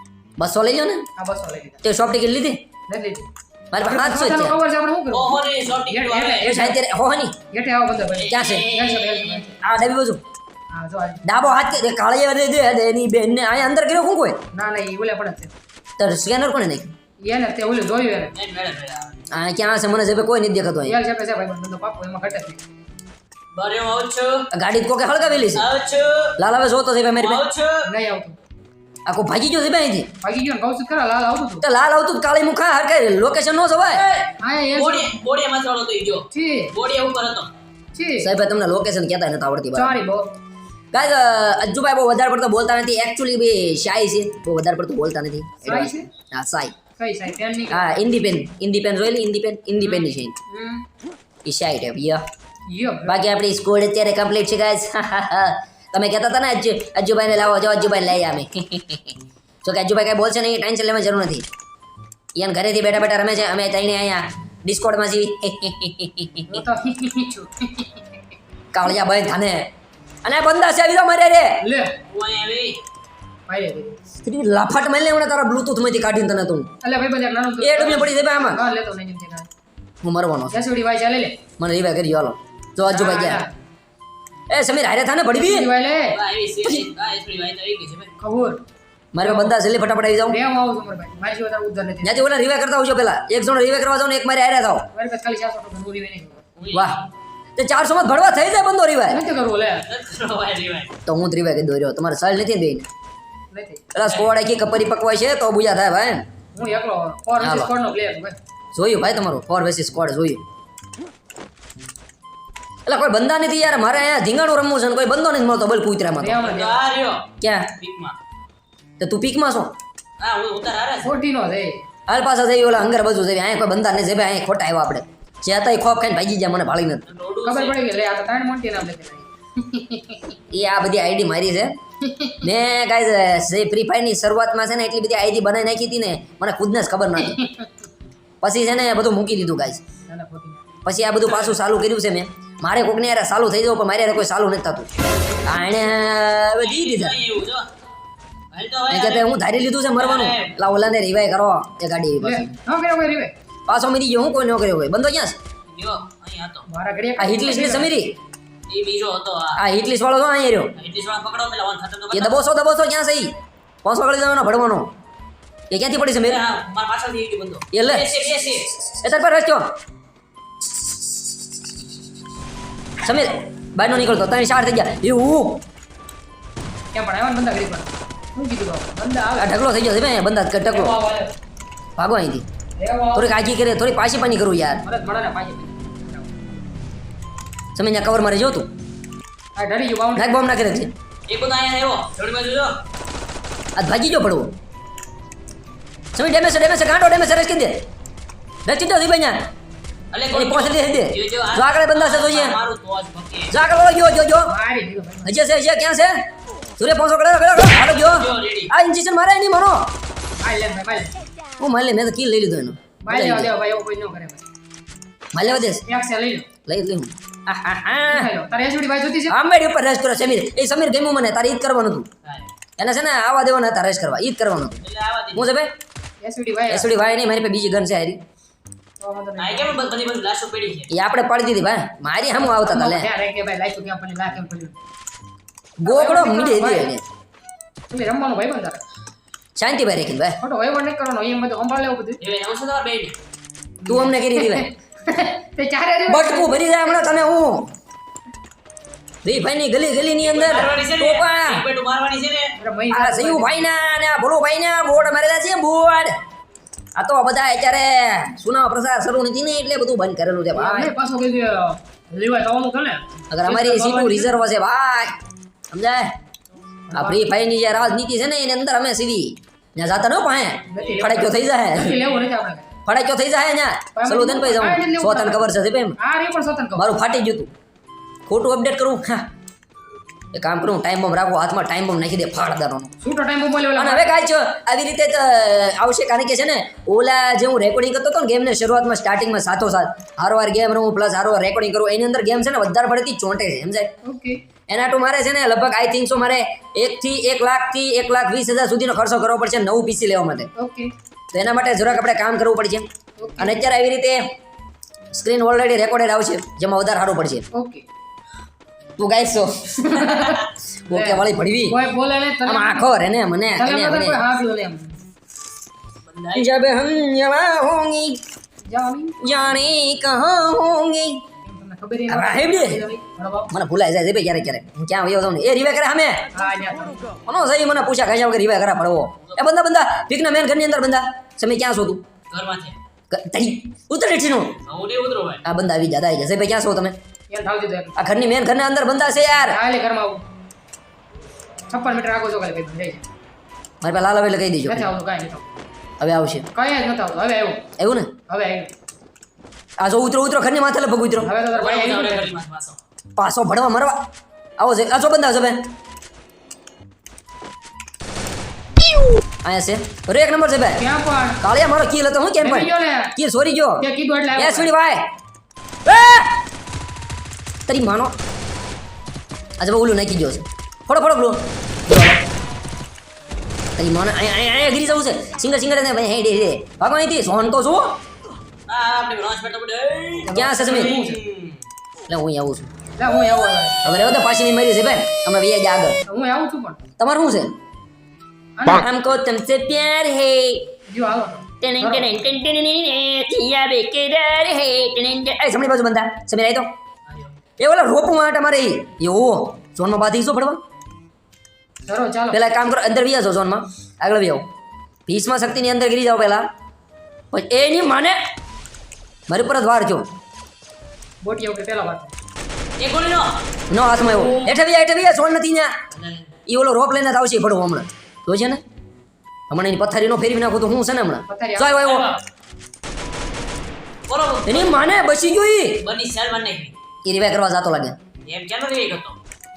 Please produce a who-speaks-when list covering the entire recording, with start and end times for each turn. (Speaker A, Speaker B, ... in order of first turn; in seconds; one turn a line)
Speaker A: 0.4-1.1
Speaker B: 1.2-1.8
Speaker A: 1.8-2.6
Speaker B: 2.9-6.8
Speaker A: 3.7-4.6
Speaker C: 5.1-6.6
Speaker A: 6.4-7.3
Speaker B: 7.5-9.6
Speaker C: 8.2-9.5
Speaker A: 8.3-8.7
Speaker A: 9.6-10.2
Speaker B: 10.7-11.2
Speaker A: 11.2-14.4
Speaker B: 14.5-15.5
Speaker A: 16.0-16.9
Speaker B: 17.2-18.3
Speaker C: 18.3-19.1
Speaker A: 19.3-21.0
Speaker B: 20.9-22.6
Speaker C: 23.6-24.4
Speaker A: 24.5-25.7
Speaker C: 25.6-26.4
Speaker A: 26.4-27.5
Speaker C: 27.2-27.9
Speaker B: 27.9-28.4
Speaker A: 29.1-30.1
Speaker B: 30.2-31.6
Speaker A: 31.6-34.0
Speaker C: 33.9-37.5
Speaker B: 34.4-35.1
Speaker B: 36.3-36.7
Speaker B: 37.9-38.3
Speaker A: 38.2-40.0
Speaker B: 39.8-40.3
Speaker A: 40.9-46.8
Speaker B: 45.6-46.1
Speaker B: 47.0-47.9
Speaker A: 47.7-50.4
Speaker B: 49.8-50.8
Speaker A: 51.5-52.2
Speaker B: 52.7-53.2
Speaker A: 53.1-61.5
Speaker A: 62.4-66.6
Speaker B: 66.5-68.0
Speaker A: 68.7-69.7
Speaker A: 70.2-71.5
Speaker B: 71.6-72.0
Speaker C: 72.1-72.8
Speaker B: 73.5-74.0
Speaker A: 74.2-76.7
Speaker B: 76.8-79.5
Speaker A: 77.6-78.6
Speaker A: 80.0-80.6
Speaker B: 80.5-81.4
Speaker A: 81.6-83.4
Speaker B: 82.9-83.5
Speaker A: 84.5-85.7
Speaker B: 85.3-86.2
Speaker C: 86.1-88.1
Speaker B: 88.2-88.6
Speaker A: 89.1-90.4
Speaker B: 89.2-89.5
Speaker B: 90.3-92.2
Speaker A: 92.0-94.9
Speaker B: 94.9-96.4
Speaker C: 96.6-97.0
Speaker A: 96.7-97.0
Speaker A: 97.6-99.2
Speaker B: 99.1-99.9
Speaker C: 99.9-100.9
Speaker A: 101.1-102.9
Speaker B: 103.5-103.9
Speaker A: 103.9-106.2
Speaker C: 104.0-104.3
Speaker B: 106.5-108.4
Speaker A: 107.4-107.7
Speaker A: 108.7-110.4
Speaker A: 112.9-116.4
Speaker B: 116.2-116.8
Speaker C: 116.4-118.2
Speaker A: 117.4-117.7
Speaker A: 119.0-119.7
Speaker C: 120.2-121.1
Speaker B: 121.0-121.8
Speaker A: 122.1-127.0
Speaker C: 127.1-127.8
Speaker B: 127.4-130.2
Speaker A: 130.5-131.7
Speaker B: 132.1-132.5
Speaker A: 132.4-137.4
Speaker B: 137.2-137.7
Speaker A: 138.4-139.8
Speaker B: 140.1-140.6
Speaker A: 140.8-144.9
Speaker C: 141.2-141.6
Speaker A: 145.5-147.2
Speaker C: 146.6-147.7
Speaker C: 148.5-149.3
Speaker A: 148.9-152.5
Speaker C: 149.9-150.6
Speaker B: 152.2-153.3
Speaker A: 153.7-155.4
Speaker C: 155.7-156.7
Speaker B: 156.7-157.9
Speaker A: 157.2-158.2
Speaker C: 158.7-159.6
Speaker A: 159.6-160.7
Speaker C: 160.8-162.4
Speaker A: 162.1-163.3
Speaker A: 163.8-164.9
Speaker A: 165.7-166.4
Speaker C: 166.2-168.7
Speaker A: 167.7-168.1
Speaker A: 169.0-169.7
Speaker A: 170.7-171.0
Speaker A: 173.0-175.6
Speaker B: 176.9-179.5
Speaker A: 179.4-180.9
Speaker B: 180.7-181.3
Speaker A: 182.0-182.4
Speaker B: 182.8-183.3
Speaker A: 183.2-184.8
Speaker B: 184.8-186.4
Speaker A: 187.8-188.7
Speaker B: 189.6-190.3
Speaker A: 190.2-190.9
Speaker C: 191.3-192.8
Speaker A: 193.8-194.5
Speaker A: 196.2-197.8
Speaker A: 198.7-199.5
Speaker C: 200.1-203.5
Speaker A: 200.3-202.6
Speaker A: 203.5-204.5
Speaker B: 204.4-205.3
Speaker A: 205.2-206.1
Speaker A: 206.8-209.9
Speaker C: 207.7-208.7
Speaker B: 210.4-211.2
Speaker A: 211.6-213.5
Speaker B: 213.0-214.4
Speaker A: 215.3-215.8
Speaker B: 215.9-216.5
Speaker A: 216.7-218.3
Speaker B: 218.1-219.4
Speaker A: 219.3-222.1
Speaker A: 222.8-224.8
Speaker C: 224.8-225.5
Speaker A: 225.3-225.7
Speaker B: 226.2-226.9
Speaker A: 226.7-228.2
Speaker B: 229.0-229.8
Speaker C: 229.4-230.9
Speaker A: 230.9-233.1
Speaker B: 232.4-234.8
Speaker A: 235.8-237.0
Speaker B: 235.8-236.9
Speaker B: 237.9-238.8
Speaker A: 239.6-240.3
Speaker B: 240.4-242.2
Speaker C: 242.2-243.2
Speaker B: 243.8-247.1
Speaker A: 243.9-244.7
Speaker A: 246.1-247.7
Speaker A: 249.2-251.7
Speaker C: 250.2-252.5
Speaker B: 252.6-253.7
Speaker A: 252.9-256.1
Speaker A: 257.0-260.9
Speaker B: 260.6-264.4
Speaker A: 263.3-265.2
Speaker A: 265.7-266.1
Speaker B: 266.9-267.2
Speaker A: 266.9-272.0
Speaker B: 270.7-272.7
Speaker C: 270.8-271.1
Speaker A: 272.9-276.0
Speaker B: 274.0-276.9
Speaker A: 276.8-277.5
Speaker A: 278.3-279.2
Speaker A: 280.3-282.9
Speaker B: 283.0-284.1
Speaker A: 283.8-293.9
Speaker B: 294.0-294.4
Speaker A: 294.7-300.5
Speaker B: 300.6-300.9
Speaker A: 301.3-302.9
Speaker B: 303.2-303.6
Speaker A: 303.4-304.2
Speaker A: 305.1-307.4
Speaker B: 307.5-307.8
Speaker A: 309.0-311.8
Speaker B: 309.8-312.9
Speaker A: 312.4-314.2
Speaker B: 313.6-315.0
Speaker C: 316.1-316.5
Speaker A: 316.3-318.2
Speaker B: 318.7-319.2
Speaker A: 319.2-321.2
Speaker B: 321.4-323.5
Speaker A: 322.1-322.8
Speaker A: 323.5-326.2
Speaker B: 326.3-327.1
Speaker A: 327.3-332.0
Speaker C: 332.3-332.8
Speaker A: 333.1-334.6
Speaker C: 334.6-335.4
Speaker A: 335.4-336.9
Speaker B: 337.3-338.0
Speaker A: 338.0-339.6
Speaker B: 339.4-340.2
Speaker B: 341.7-343.1
Speaker A: 343.8-344.9
Speaker B: 344.7-345.5
Speaker A: 346.0-346.5
Speaker B: 346.5-347.6
Speaker A: 347.8-348.1
Speaker B: 348.3-348.7
Speaker A: 349.8-351.3
Speaker B: 351.2-352.3
Speaker C: 351.5-352.8
Speaker A: 353.2-354.0
Speaker A: 354.6-355.6
Speaker A: 359.4-360.8
Speaker B: 360.8-361.4
Speaker A: 361.4-363.8
Speaker B: 362.4-363.1
Speaker B: 363.8-364.7
Speaker A: 364.4-365.1
Speaker A: 365.9-366.3
Speaker A: 367.7-368.1
Speaker A: 369.6-372.2
Speaker A: 373.8-378.0
Speaker C: 378.7-381.6
Speaker B: 380.2-381.2
Speaker A: 380.3-381.0
Speaker A: 382.1-382.7
Speaker B: 383.0-384.0
Speaker A: 383.9-386.0
Speaker B: 386.1-386.8
Speaker A: 387.0-387.5
Speaker B: 388.6-388.9
Speaker A: 388.7-390.6
Speaker B: 390.9-392.1
Speaker A: 391.6-396.7
Speaker A: 397.6-400.6
Speaker B: 401.9-402.4
Speaker A: 402.3-404.4
Speaker A: 405.1-406.4
Speaker A: 407.3-408.2
Speaker A: 409.3-410.1
Speaker B: 411.2-412.1
Speaker C: 412.8-413.4
Speaker A: 413.7-415.7
Speaker C: 414.0-414.5
Speaker C: 415.9-416.3
Speaker A: 416.5-418.6
Speaker A: 419.5-422.1
Speaker B: 421.3-421.9
Speaker C: 421.8-422.2
Speaker C: 424.1-424.8
Speaker A: 424.5-425.8
Speaker C: 425.8-426.7
Speaker A: 427.1-428.0
Speaker C: 428.2-429.2